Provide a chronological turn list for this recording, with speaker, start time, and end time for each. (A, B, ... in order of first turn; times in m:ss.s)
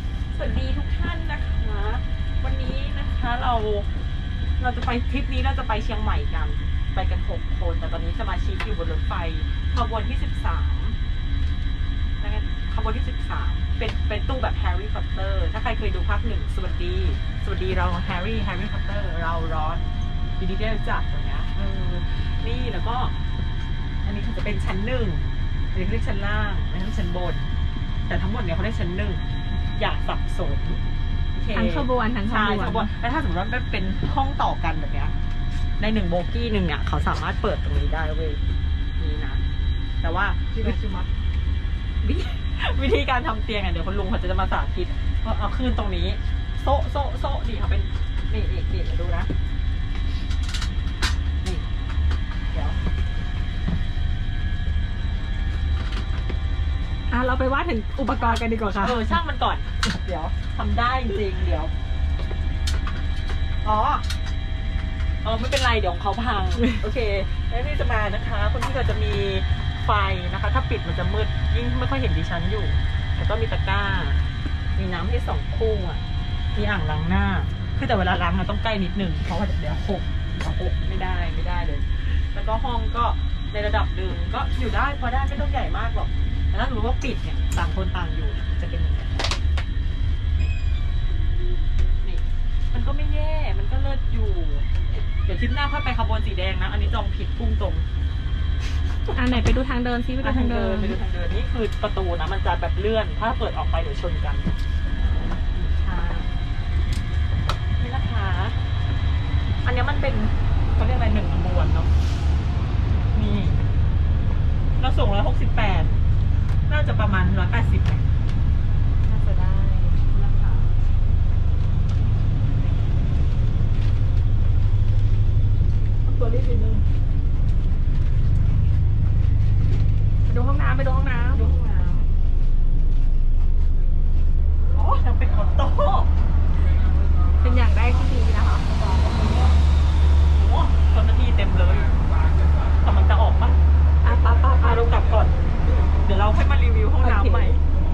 0:00.3-0:03.9 A
0:04.6-0:11.0 A
0:12.2-0:19.8 A
0:20.4-0:23.2 A
0:24.0-0:27.5 A
0:28.1-0:29.2 A
0:29.7-0:30.8 A
0:31.3-0:35.2 A
0:31.5-0:32.9 B
0:35.8-0:38.4 A
0:39.0-0:39.4 A
0:40.0-0:41.1 A
0:42.3-0:49.3 A
0:52.5-0:52.8 A
0:57.1-0:59.1 B
0:58.1-1:01.7 A
1:03.6-1:04.0 A
1:05.2-1:14.2 A
1:14.8-1:16.0 A
1:16.5-1:29.3 A
1:32.0-1:37.8 A
1:39.1-1:41.0 B
1:40.2-1:44.5 A
1:45.5-1:46.3 A
1:47.8-1:48.6 A
1:49.6-1:51.9 A
1:53.1-1:53.6 A
1:54.8-1:56.0 A
1:56.7-1:58.0 A
1:59.0-2:00.0 B
2:00.1-2:00.7 A
2:06.0-2:06.8 A
2:10.3-2:11.5 B
2:11.3-2:12.1 A
2:14.7-2:16.1 A
2:17.4-2:18.7 B
2:18.7-2:19.6 A
2:20.2-2:22.0 A
2:22.8-2:23.6 A
2:24.0-2:24.9 B
2:24.6-2:25.4 A
2:26.0-2:27.6 A
2:27.0-2:27.5 B